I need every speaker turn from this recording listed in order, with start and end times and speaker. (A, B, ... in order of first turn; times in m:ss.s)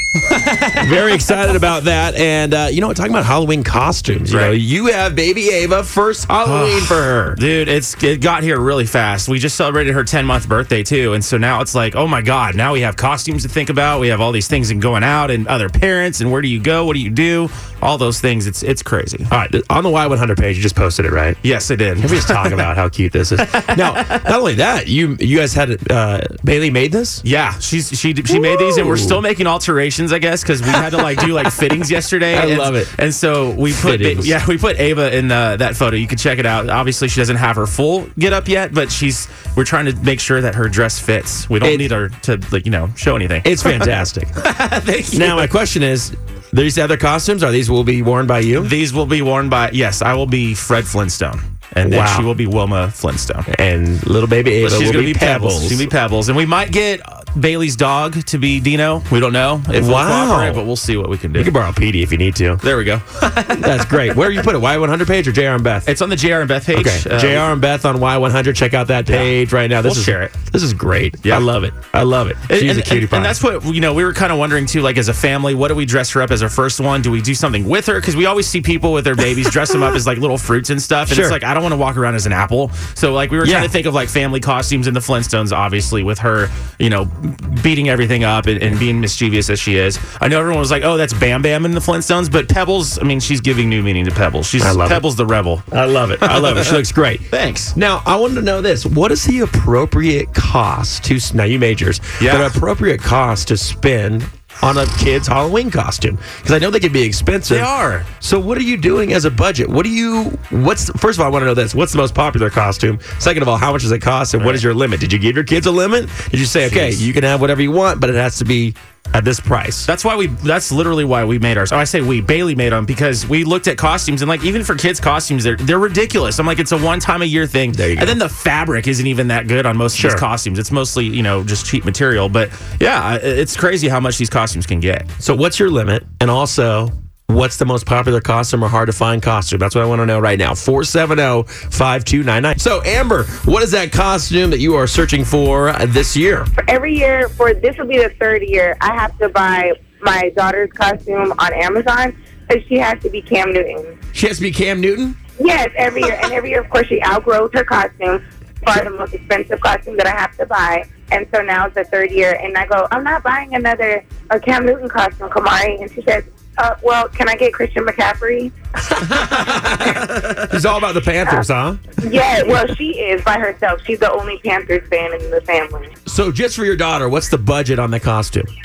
0:00.2-0:01.4 A
0:00.8-0:07.4 B
0:04.3-0:04.5 A
0:06.4-0:19.3 A
0:19.3-0:21.4 B
0:21.4-0:22.7 A
0:22.0-0:27.2 B
0:23.4-0:24.3 A
0:27.2-0:45.5 A
0:28.3-0:29.2 B
0:30.7-0:31.5 B
0:32.3-0:32.9 B
0:33.7-0:34.4 B
0:43.4-0:44.4 B
0:45.1-0:48.7 B
0:48.6-0:53.5 A
0:51.8-0:52.3 B
0:53.5-0:55.9 B
0:54.6-1:01.5 A
0:59.7-1:00.6 B
1:01.3-1:02.6 B
1:02.6-1:04.5 A
1:03.5-1:05.9 B
1:05.8-1:07.5 A
1:06.7-1:13.4 B
1:09.1-1:10.3 A
1:12.4-1:35.6 A
1:21.1-1:21.4 B
1:23.4-1:23.7 B
1:34.6-1:35.0 B
1:35.7-1:59.9 B
1:36.2-1:36.8 A
1:37.3-1:37.7 A
1:42.2-1:42.6 A
1:47.5-1:48.1 A
1:54.4-1:54.6 A
1:56.6-1:57.1 A
1:59.9-2:15.1 A
2:07.7-2:08.2 B
2:09.9-2:10.2 B
2:15.2-2:26.5 B
2:26.6-2:34.0 C
2:34.1-2:35.2 B
2:35.4-2:48.5 C
2:49.0-2:51.9 B
2:49.0-2:50.6 A
2:52.0-2:55.9 C
2:56.0-2:58.5 B